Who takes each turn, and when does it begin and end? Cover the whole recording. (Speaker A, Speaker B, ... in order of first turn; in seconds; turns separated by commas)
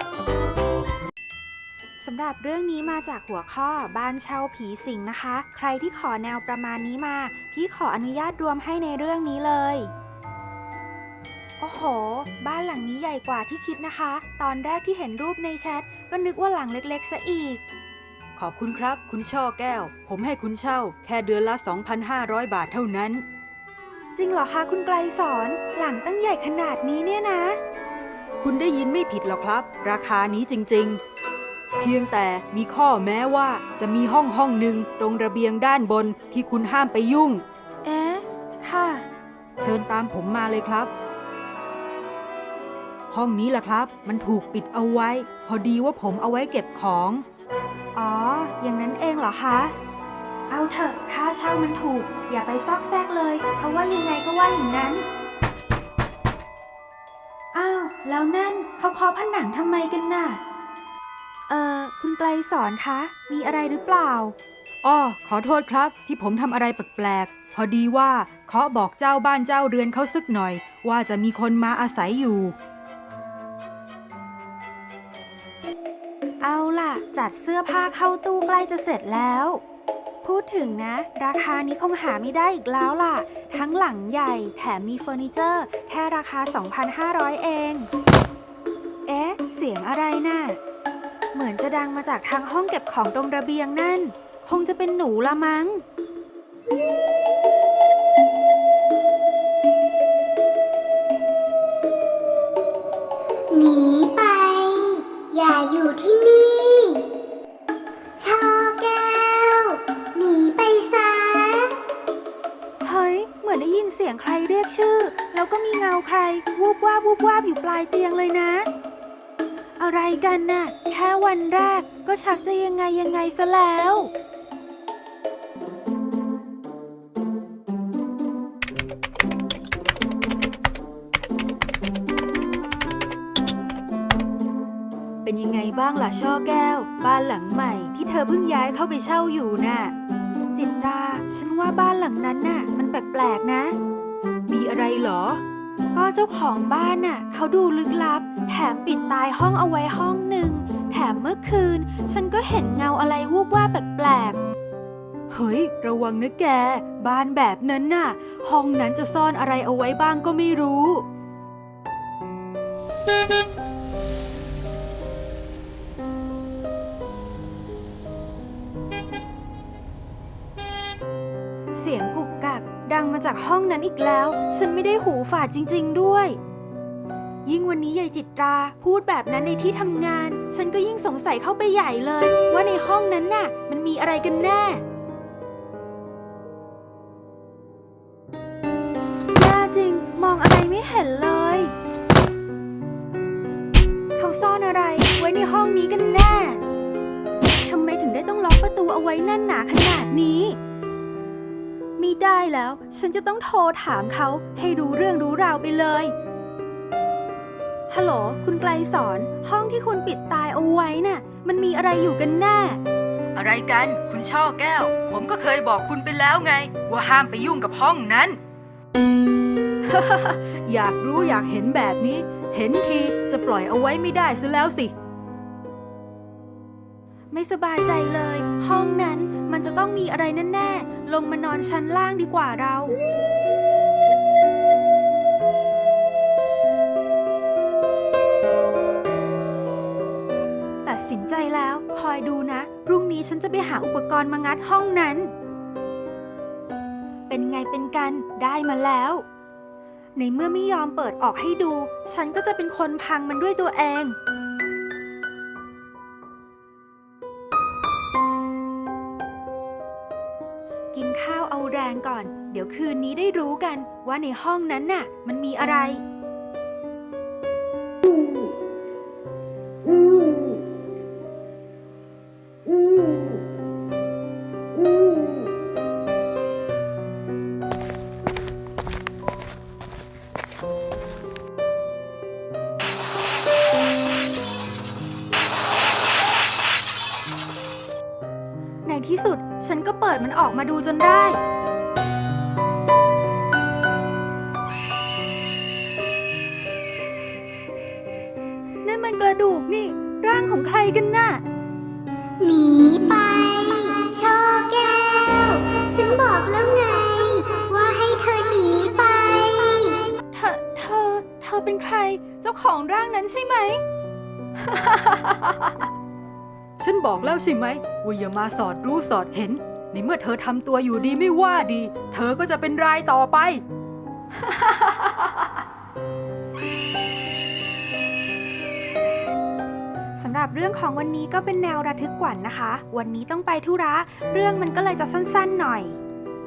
Speaker A: 2.0-9.9, Speaker A: 11.6-17.6, Speaker B: 18.4-23.2, Speaker A: 20.0-21.1, Speaker A: 24.1-27.6, Speaker B: 28.4-31.0, Speaker B: 31.8-37.4, Speaker A: 37.8-39.1, Speaker B: 39.6-40.9, Speaker B: 43.1-47.2, Speaker A: 45.0-45.3, Speaker A: 47.9-49.7, Speaker A: 50.5-55.0, Speaker A: 57.5-60.4, Speaker A: 61.5-64.3, Speaker B: 64.8-72.5, Speaker A: 67.5-67.7, Speaker A: 68.2-69.4, Speaker A: 70.6-71.1, Speaker A: 76.4-79.6, Speaker A: 80.2-87.9, Speaker A: 89.1-90.6, Speaker A: 91.3-95.8, Speaker C: 103.5-107.1, Speaker C: 108.2-111.7, Speaker A: 112.8-118.7, Speaker A: 119.8-124.1, Speaker B: 135.3-136.2, Speaker A: 135.7-139.9, Speaker A: 140.5-143.8, Speaker B: 144.5-145.4, Speaker A: 145.9-154.4, Speaker B: 155.3-161.0, Speaker A: 160.3-160.7, Speaker A: 171.7-176.4, Speaker A: 177.4-184.8, Speaker A: 189.3-191.7, Speaker A: 194.2-196.6, Speaker A: 197.7-200.6, Speaker A: 202.0-206.1, Speaker A: 207.9-212.8, Speaker B: 213.4-218.4, Speaker A: 219.9-220.8, Speaker B: 220.7-224.9, Speaker A: 227.3-233.0, Speaker A: 240.8-245.3, Speaker A: 247.3-249.2, Speaker A: 250.2-254.2, Speaker A: 260.9-266.0, Speaker A: 288.9-291.4, Speaker A: 298.9-301.4, Speaker C: 302.4-310.1, Speaker A: 310.3-313.8, Speaker A: 314.7-315.4, Speaker B: 316.8-323.6, Speaker A: 330.2-336.0